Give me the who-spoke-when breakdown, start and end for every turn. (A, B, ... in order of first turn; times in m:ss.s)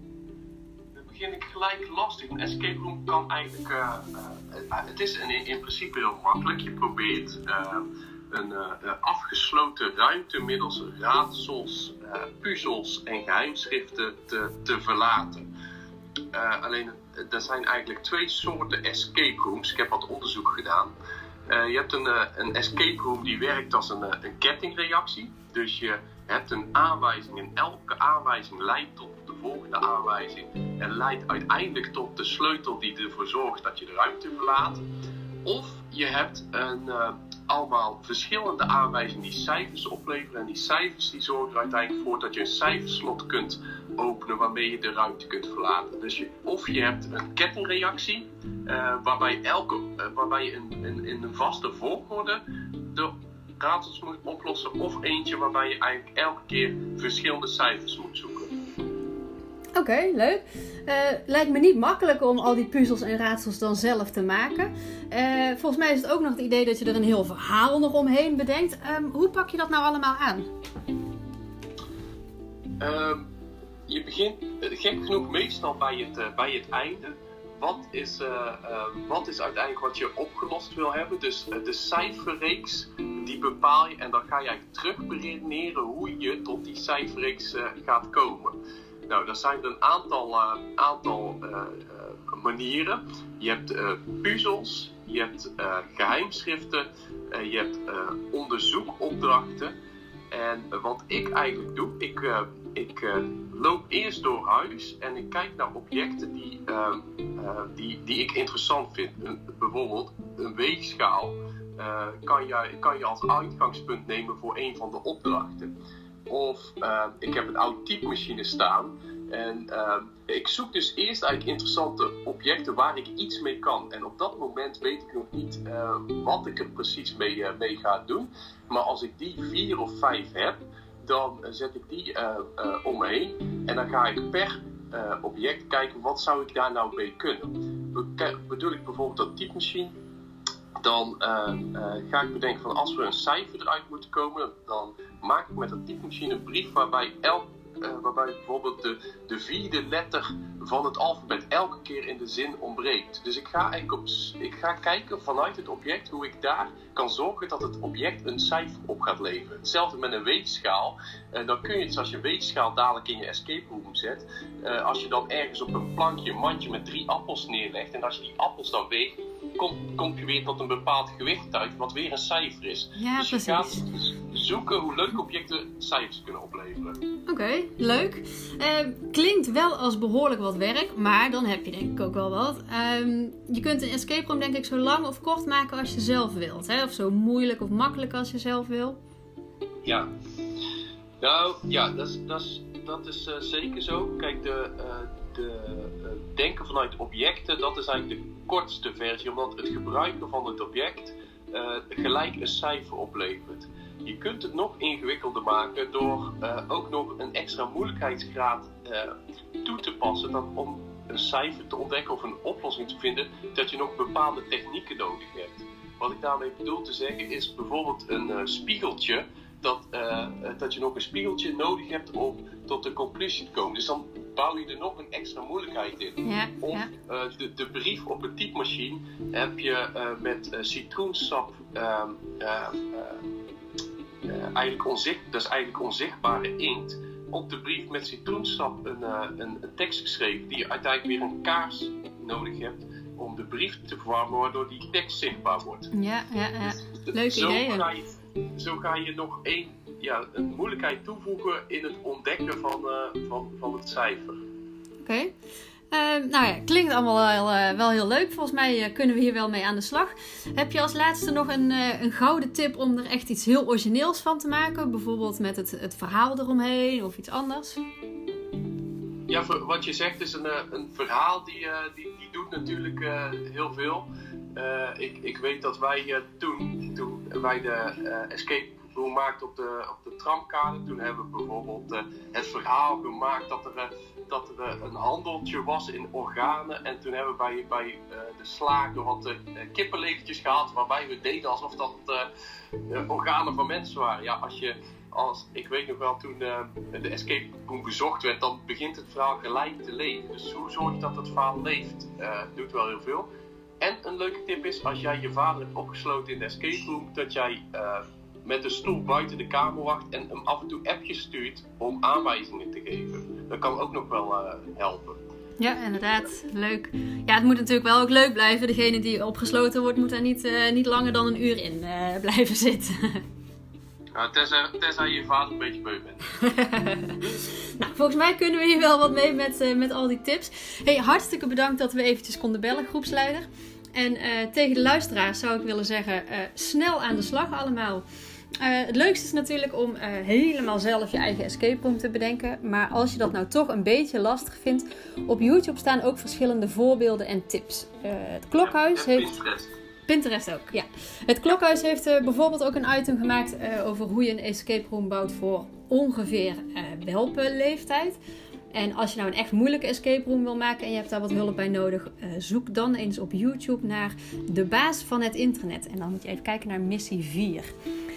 0:01.0-0:15.5 A
0:16.3-0:21.0 A
0:21.5-0:34.8 A
0:35.4-0:52.4 A
0:52.9-0:58.5 A
0:59.8-1:10.5 B
1:12.8-1:13.3 A
1:13.9-1:28.6 A
1:29.1-1:39.8 A
1:40.3-1:55.7 A
1:56.3-2:20.0 A
2:20.8-2:57.0 A
2:53.0-2:53.8 B
2:57.3-3:09.0 B
3:09.8-3:10.1 A
3:11.2-3:53.2 A
3:46.2-3:46.9 B
3:54.2-4:05.9 A
4:05.9-4:07.9 B
4:07.0-4:14.4 A
4:15.0-4:15.3 B
4:15.9-4:27.8 B
4:29.3-4:52.3 A
4:52.9-5:03.3 A
5:03.8-5:15.2 A
5:15.6-5:23.2 B
5:24.2-5:26.2 A
5:26.4-5:27.2 B
5:27.8-5:38.0 B
5:38.6-5:49.3 B
5:48.6-5:49.7 A
5:50.1-5:58.2 B
5:58.7-6:07.7 B